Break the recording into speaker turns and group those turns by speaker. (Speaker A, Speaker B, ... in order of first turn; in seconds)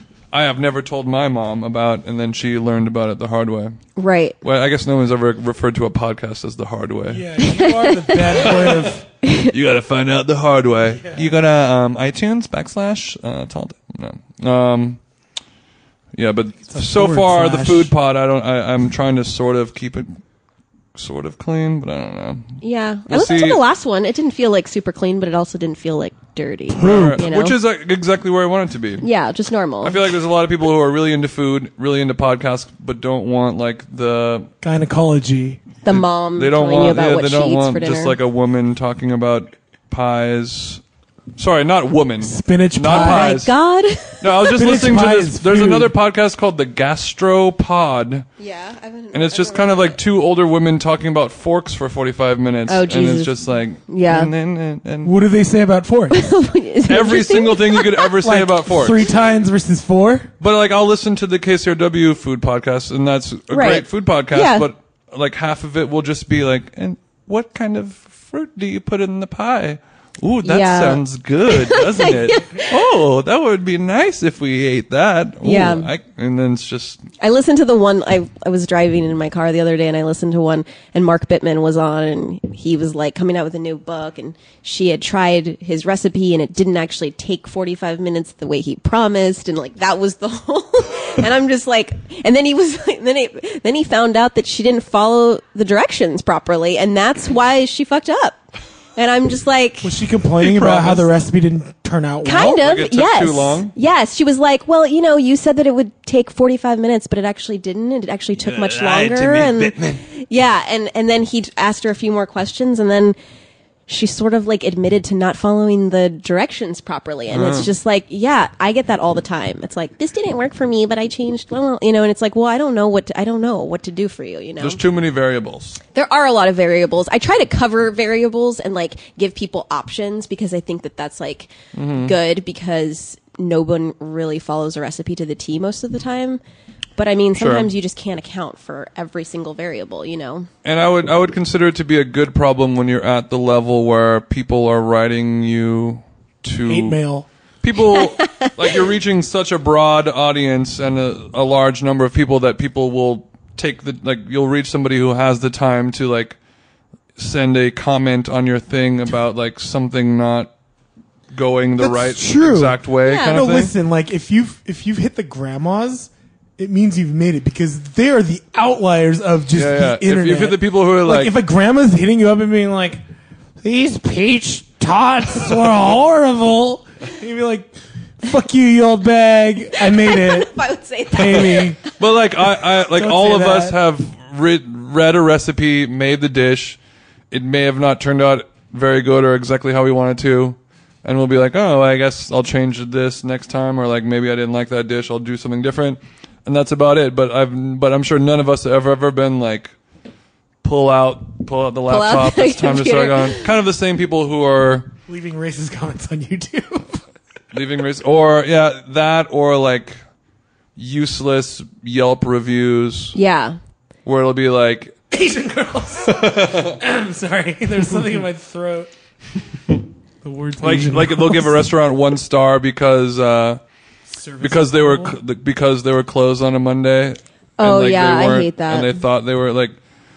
Speaker A: 0.3-3.8, 4.4-7.3, 8.4-15.0, 16.1-20.2, 20.9-23.6, 26.8-29.1, 29.8-34.5, 35.9-40.8, 41.4-43.5, 44.2-48.3, 49.1-55.1, 56.9-59.0, 60.4-77.0, 100.4-101.1, 102.5-103.7, 108.4-110.0, 117.3-117.7, 124.6-125.8, 131.7-132.1, 137.4-137.7, 140.6-147.0, 147.6-156.4, 157.2-160.5, 161.3-163.7, 169.5-171.3, 182.0-186.8, 187.3-199.7, 200.6-204.9, 207.5-210.0, 210.8-213.2, 214.1-214.9, 216.1-216.8, 220.6-223.6, 224.4-229.8
Speaker B: 4.0-4.4, 7.4-8.5, 9.2-9.5, 22.6-27.6, 29.0-30.0, 35.8-38.2, 42.9-44.5, 48.4-50.0, 52.7-53.3, 53.9-54.3, 56.1-58.1, 63.5-64.7, 70.4-72.7, 75.4-75.9, 77.2-98.4, 99.0-100.0, 102.2-113.2, 113.9-124.8, 125.9-131.5, 132.0-136.4, 137.0-140.5, 148.0-148.7, 163.0-163.4, 179.8-181.8, 201.9-203.4, 213.1-213.6, 227.6-229.0
Speaker C: 7.1-9.1, 11.0-11.3, 16.7-17.9, 26.7-27.2, 34.6-35.6, 42.2-43.4, 44.5-45.9, 55.0-56.2, 58.2-60.3, 99.8-102.6, 146.6-147.3, 161.8-173.0, 173.6-180.5, 181.1-181.8, 182.8-183.8, 205.1-207.0, 215.1-218.9, 220.2-221.6, 224.1-225.2